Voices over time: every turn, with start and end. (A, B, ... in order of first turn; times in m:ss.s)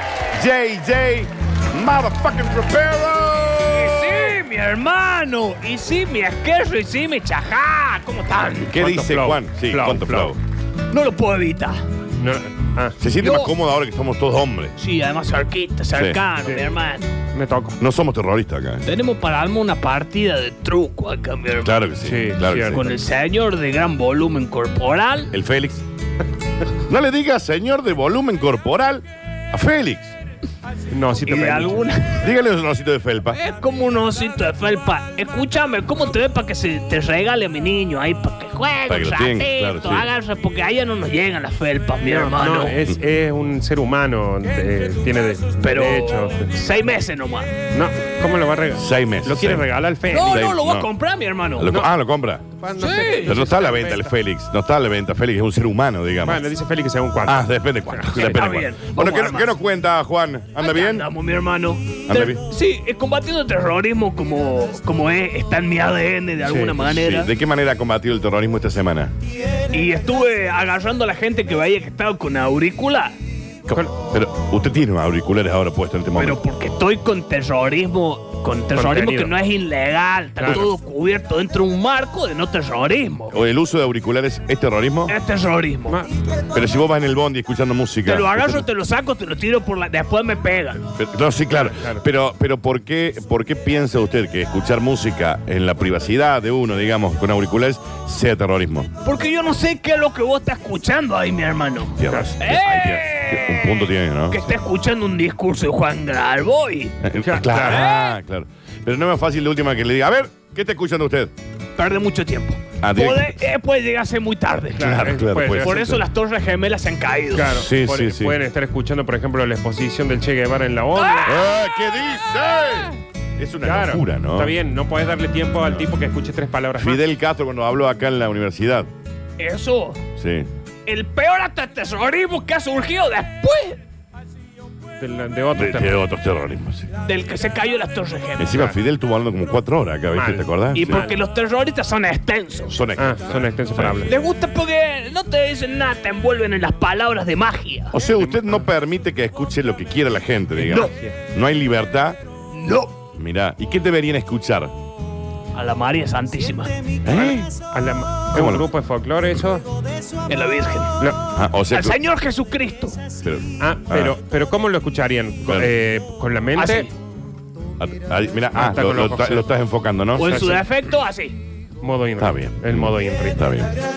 0:00.3-0:04.3 A
0:03.7-0:08.8 B
0:08.7-0:10.4 A
0:08.8-0:10.4 C
0:10.9-0:11.8 B
0:12.2-0:13.0 C
0:13.0-0:14.7 A
0:13.1-0:13.5 B
0:14.8-0:17.2 B
0:15.9-0:16.2 A
0:17.3-0:17.8 C
0:17.8-0:18.8 A
0:18.8-0:21.8 B
0:21.6-0:22.8 A
0:22.0-0:22.8 C
0:22.7-0:25.3 B
0:25.3-0:25.8 A
0:26.8-0:30.2 A
0:30.9-0:31.8 C
0:31.2-0:32.3 B
0:32.2-0:33.4 A
0:33.3-0:42.8 B
0:38.9-0:40.1 A
0:42.0-0:46.5 C
0:45.6-0:47.5 B
0:47.7-0:50.5 C
0:48.7-0:49.7 A
0:50.0-0:51.7 B
0:50.3-0:50.9 A
0:51.6-0:52.5 A
0:52.6-0:54.2 C
0:52.8-0:53.5 B
0:53.2-0:56.4 A
0:56.2-0:58.7 C
0:57.2-1:01.0 A
0:58.2-0:59.6 B
1:00.6-1:07.3 B
1:02.1-1:02.4 A
1:06.4-1:06.8 C
1:06.9-1:09.1 A
1:09.7-1:13.1 B
1:13.7-1:16.4 A
1:16.2-1:23.4 B
1:18.7-1:19.4 C
1:20.4-1:20.7 C
1:23.3-1:25.2 A
1:25.1-1:26.0 B
1:25.9-1:26.1 C
1:26.5-1:28.6 A
1:28.0-1:30.8 B
1:31.0-1:38.9 A
1:31.5-1:32.0 C
1:39.0-1:47.0 B
1:42.0-1:44.6 A
1:42.1-1:42.4 C
1:47.0-1:51.3 A
1:47.2-1:47.8 C
1:47.5-1:48.2 B
1:51.8-1:55.0 B
1:52.8-1:53.4 A
1:54.8-1:56.0 C
1:54.8-1:56.0 A
1:55.6-1:57.5 B
1:57.3-2:01.4 C
1:57.5-1:58.4 A
2:01.0-2:01.8 B
2:01.2-2:04.6 A
2:03.6-2:07.0 C
2:06.8-2:08.9 A
2:09.4-2:10.0 B
2:10.2-2:10.5 A
2:10.9-2:13.8 B
2:15.0-2:16.0 C
2:15.6-2:16.9 A
2:17.0-2:18.6 B
2:18.4-2:21.0 A
2:18.5-2:18.8 C
2:20.1-2:21.1 C
2:20.7-2:22.8 B
2:22.7-2:24.1 A
2:23.0-2:24.1 C
2:24.1-2:28.0 B
2:27.9-2:32.2 A
2:28.1-2:28.7 C
2:30.6-2:31.2 C
2:30.7-2:30.9 B
2:32.5-2:33.0 B
2:33.1-2:34.7 A
2:35.5-2:37.4 B
2:37.0-2:37.5 A
2:37.7-2:39.6 C
2:38.3-2:38.7 A
2:40.3-2:41.0 B
2:41.3-2:42.0 A
2:41.7-2:43.0 B
2:43.2-2:44.2 A
2:43.6-2:46.9 C
2:45.4-2:45.7 A
2:46.6-2:46.9 B
2:47.8-2:50.4 A
2:48.5-2:49.5 C
2:50.2-2:51.4 B
2:50.2-2:50.7 C
2:51.8-2:53.4 C
2:52.2-2:53.7 A